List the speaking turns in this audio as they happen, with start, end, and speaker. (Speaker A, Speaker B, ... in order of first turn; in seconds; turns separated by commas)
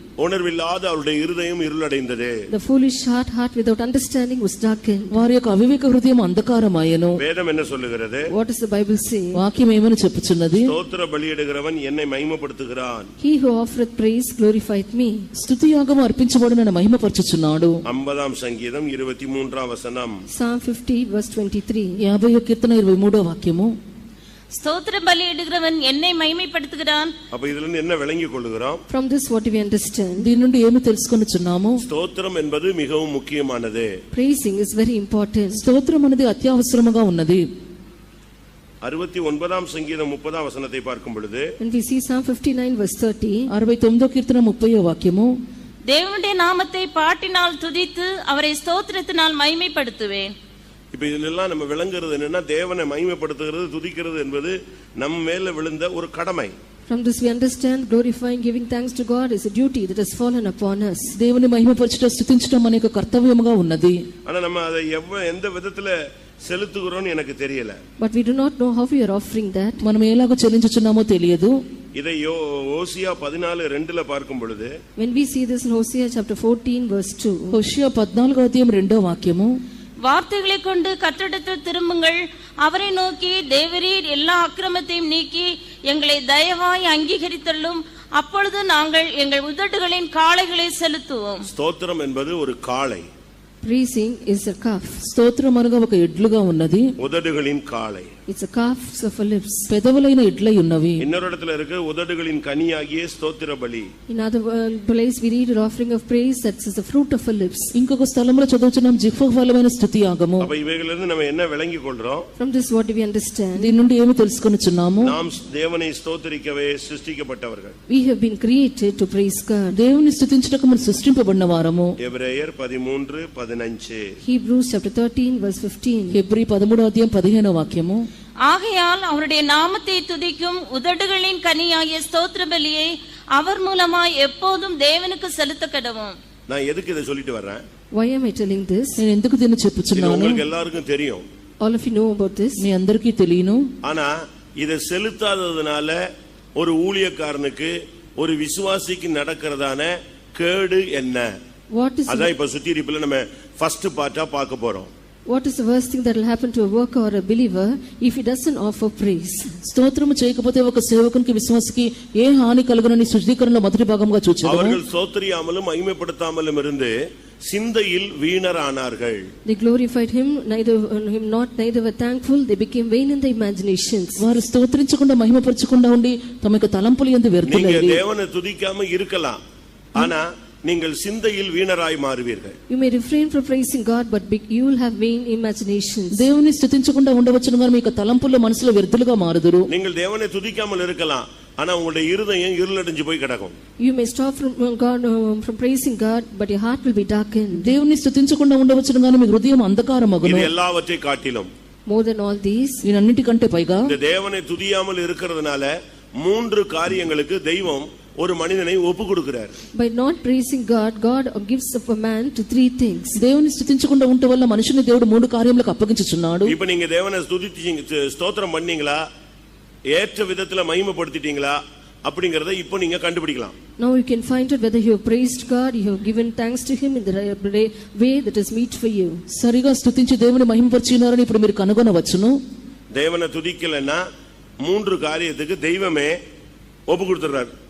Speaker A: 0.2-2.4, Speaker B: 2.5-5.2, Speaker C: 5.1-7.2, Speaker A: 7.2-8.3, Speaker B: 8.3-9.4, Speaker C: 9.3-10.7, Speaker A: 10.6-13.1, Speaker B: 13.2-15.3, Speaker C: 15.4-17.8, Speaker A: 17.9-20.2, Speaker B: 20.3-22.0, Speaker C: 22.0-23.7, Speaker D: 24.5-27.1, Speaker A: 27.3-28.8, Speaker B: 28.9-30.3, Speaker C: 30.2-31.8, Speaker A: 31.8-33.9, Speaker B: 34.1-35.6, Speaker C: 35.5-37.4, Speaker A: 38.8-41.5, Speaker B: 41.6-43.5, Speaker C: 43.5-45.3, Speaker D: 45.9-50.3, Speaker A: 50.9-56.5, Speaker B: 56.9-61.1, Speaker C: 61.2-64.0, Speaker A: 64.2-67.8, Speaker B: 68.0-69.8, Speaker C: 69.8-71.5, Speaker A: 71.9-74.7, Speaker B: 75.0-77.5, Speaker C: 77.5-79.6, Speaker D: 80.0-91.4, Speaker A: 91.5-93.1, Speaker B: 93.6-95.0, Speaker C: 95.0-96.8, Speaker A: 97.0-98.1, Speaker B: 98.3-99.7, Speaker C: 99.7-101.0, Speaker A: 101.0-103.9, Speaker B: 104.1-107.7, Speaker C: 107.7-110.5, Speaker A: 110.4-112.3, Speaker B: 112.4-113.7, Speaker C: 113.6-115.1, Speaker A: 115.0-117.8, Speaker B: 117.9-119.7, Speaker C: 119.7-121.9, Speaker A: 122.0-124.1, Speaker B: 124.2-126.2, Speaker C: 126.1-128.1, Speaker D: 128.4-136.1, Speaker A: 136.5-137.6, Speaker B: 137.9-139.0, Speaker C: 139.0-140.4, Speaker A: 139.9-141.2, Speaker B: 141.6-142.6, Speaker C: 142.6-143.7, Speaker A: 143.8-146.0, Speaker A: 146.6-151.3, Speaker B: 151.7-152.3, Speaker A: 152.1-154.9, Speaker B: 155.3-159.5, Speaker C: 159.6-164.8, Speaker A: 164.4-166.9, Speaker A: 167.5-169.2, Speaker B: 169.4-174.2, Speaker C: 174.2-178.0, Speaker A: 177.4-179.4, Speaker A: 179.9-182.6, Speaker B: 182.7-186.2, Speaker C: 186.1-189.7, Speaker A: 189.7-193.6, Speaker B: 193.8-197.7, Speaker C: 197.5-200.5, Speaker A: 200.2-201.5, Speaker B: 201.9-202.8, Speaker C: 202.8-203.9, Speaker A: 203.8-209.6, Speaker B: 209.7-213.2, Speaker C: 213.2-216.5, Speaker A: 216.4-219.0, Speaker A: 219.9-223.6, Speaker B: 223.8-229.2, Speaker C: 229.3-232.4, Speaker A: 232.9-234.0, Speaker A: 234.6-236.2, Speaker A: 236.9-237.5